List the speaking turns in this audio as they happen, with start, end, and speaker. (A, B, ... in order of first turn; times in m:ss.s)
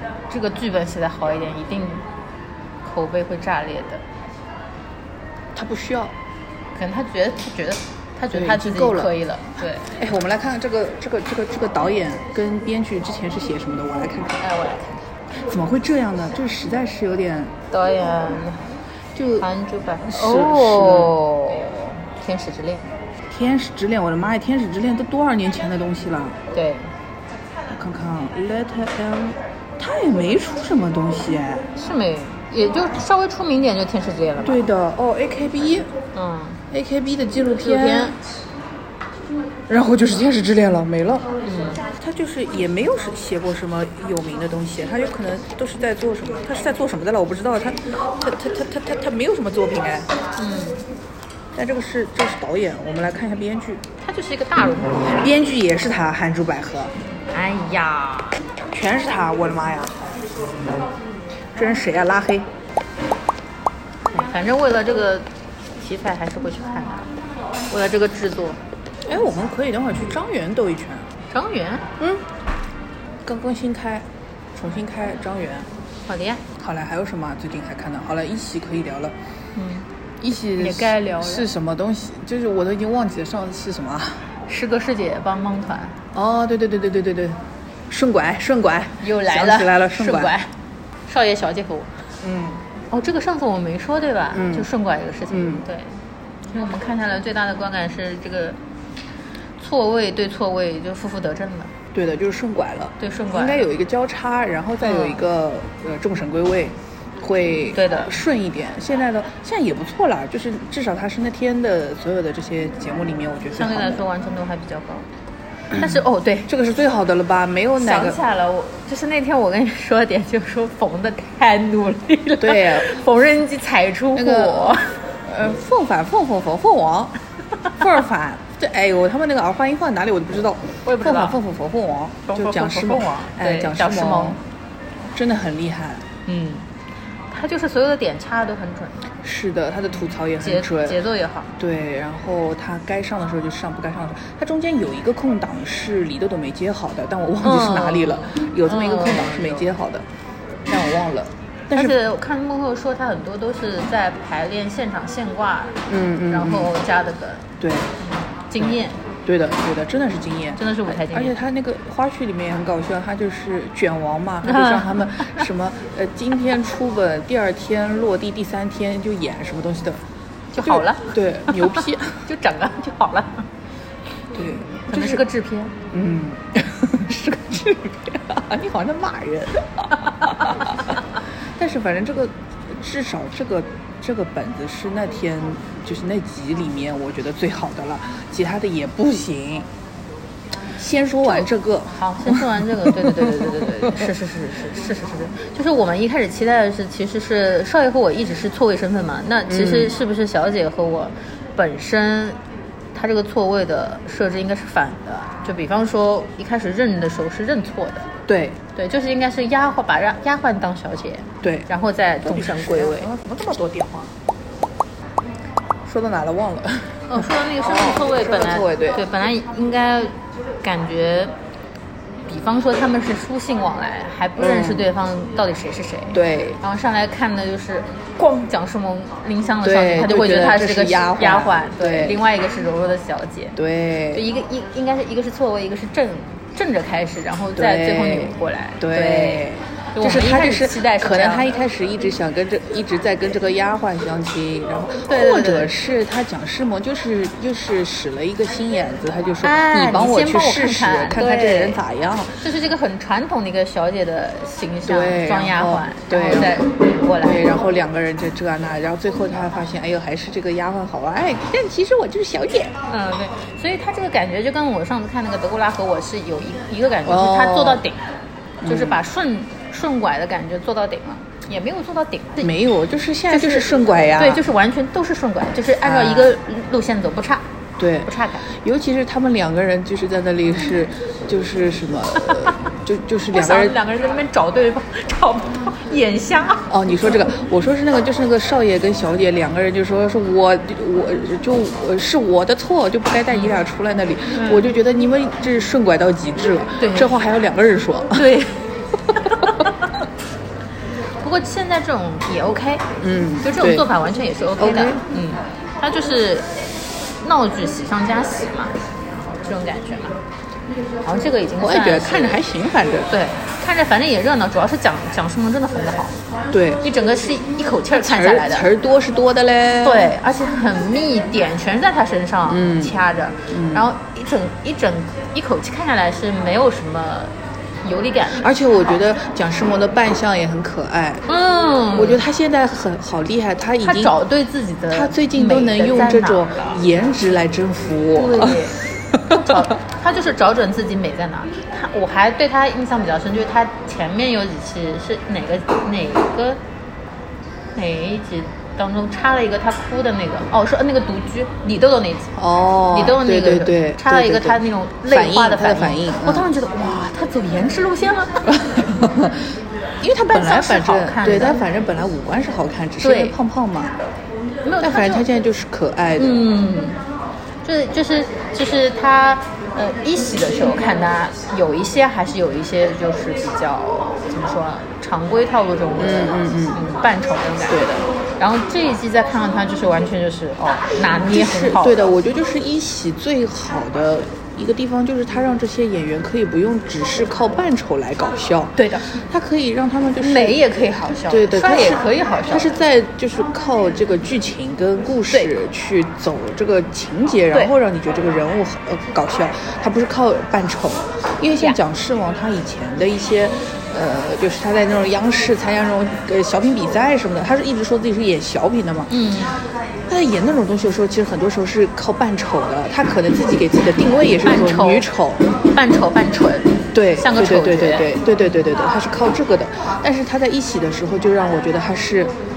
0:00.3-0:02.0 A
0:02.8-0:04.0 A
0:05.5-0:06.1 B
0:06.7-0:09.9 A
0:08.3-0:09.1 B
0:09.9-0:14.4 B
0:14.4-0:15.0 A
0:15.4-0:17.5 B
0:17.7-0:18.7 A
0:19.1-0:19.5 B
0:19.4-0:22.8 A
0:20.0-0:21.1 B
0:23.3-0:26.4 B
0:26.5-0:26.9 A
0:27.7-0:31.6 B
0:31.8-0:34.6 A
0:34.4-0:35.9 B
0:36.1-0:36.6 A
0:36.7-0:38.1 B
0:37.6-0:38.2 A
0:39.7-0:41.3 B
0:41.4-0:41.8 A
0:42.0-0:50.1 B
0:50.4-0:50.8 A
0:51.5-0:53.8 B
0:54.0-0:55.3 A
0:55.2-0:56.9 B
0:57.3-0:58.4 A
0:58.7-1:00.0 B
1:01.5-1:02.5 B
1:04.1-1:07.0 A
1:07.7-1:08.6 A
1:09.0-1:11.1 B
1:11.3-1:11.9 A
1:12.0-1:12.2 B
1:13.2-1:15.7 B
1:16.0-1:16.4 A
1:16.6-1:19.1 B
1:19.6-1:19.9 A
1:20.2-1:24.2 B
1:20.6-1:21.5 A
1:24.5-1:26.0 A
1:26.1-1:30.3 B
1:29.0-1:30.5 A
1:31.1-1:32.0 A
1:32.2-1:32.6 B
1:32.9-1:35.9 A
1:34.3-1:34.7 B
1:35.3-1:35.6 B
1:36.5-1:38.6 A
1:39.6-1:41.7 A
1:41.9-1:54.0 B
1:43.0-1:43.7 A
1:44.8-1:45.2 A
1:47.7-1:48.1 A
1:53.5-1:55.1 A
1:55.7-1:56.5 A
1:56.5-1:58.2 B
1:57.8-2:05.0 A
2:02.4-2:03.0 B
2:04.1-2:07.2 B
2:07.8-2:14.4 B
2:10.8-2:11.4 A
2:12.3-2:14.4 A
2:15.1-2:16.1 B
2:16.2-2:16.7 A
2:17.3-2:19.0 A
2:19.2-2:21.0 B
2:20.4-2:21.5 A
2:21.6-2:30.0 B
2:27.4-2:29.7 A
2:30.6-2:32.0 B
2:31.7-2:39.0 A
2:35.9-2:36.7 B
2:37.6-2:37.9 B
2:38.6-2:50.0 B
2:40.6-2:41.3 A
2:44.4-2:45.5 A
2:50.5-2:53.5 A
2:50.6-2:52.2 B
2:54.3-2:55.2 B
2:54.9-2:55.7 A
2:55.9-3:01.0 B
3:00.2-3:00.8 A
3:01.6-3:09.7 B
3:10.8-3:14.1 B
3:11.2-3:22.4 A
3:19.5-3:19.9 B
3:22.9-3:28.1 A
3:28.3-3:28.6 B
3:28.7-3:33.1 A
3:31.4-3:31.7 B
3:32.2-3:34.1 B
3:35.9-3:39.0 B
3:37.1-3:41.3 A
3:42.3-3:53.6 A
3:44.4-3:44.9 B
3:46.1-3:46.6 B
3:49.6-3:52.2 B
3:53.6-3:54.2 B
3:54.1-4:01.5 A
3:57.6-4:12.4 B
4:05.0-4:05.7 A
4:09.4-4:11.8 A
4:12.4-4:17.4 A
4:14.8-4:16.7 B
4:17.2-4:22.7 B
4:22.9-4:28.1 A
4:27.0-4:27.8 B
4:28.6-4:29.0 B
4:28.6-4:32.5 A
4:32.4-4:34.4 B
4:33.3-4:37.5 A
4:35.8-4:36.4 B
4:37.8-4:43.8 B
4:38.0-4:38.5 A
4:42.3-4:42.5 A
4:43.3-4:46.7 A
4:46.7-4:58.3 B
4:54.3-4:54.7 A
4:56.8-4:57.2 A
4:58.1-4:59.8 A
5:01.2-5:02.8 A
5:03.0-5:03.9 B
5:03.4-5:06.5 A
5:04.6-5:05.0 B
5:07.2-5:10.2 A
5:11.0-5:12.5 A
5:11.6-5:13.1 B
5:13.1-5:16.2 A
5:16.5-5:16.8 B
5:16.8-5:18.7 A
5:17.9-5:20.1 B
5:19.8-5:28.5 A
5:22.5-5:23.0 B
5:23.5-5:23.9 B
5:28.4-5:31.2 B
5:31.3-5:32.2 A
5:31.9-5:34.1 B
5:33.8-5:36.8 A
5:34.9-5:39.6 B
5:38.1-5:46.6 A
5:47.7-5:52.4 A
5:52.4-5:56.5 B
5:52.9-5:58.6 A
5:58.5-5:59.4 B
6:00.0-6:03.9 B
6:00.3-6:01.6 A
6:03.0-6:03.4 A
6:04.6-6:05.2 A
6:04.8-6:06.4 B
6:06.2-6:07.0 A
6:07.6-6:22.1 A
6:16.0-6:16.8 B
6:17.7-6:18.0 B
6:21.0-6:30.6 B
6:28.8-6:29.1 A
6:30.2-6:32.8 A
6:31.3-6:49.1 B
6:49.1-6:49.6 A
6:50.1-6:55.4 B
6:54.4-6:55.1 A
6:55.7-6:58.1 A
6:56.9-7:02.3 B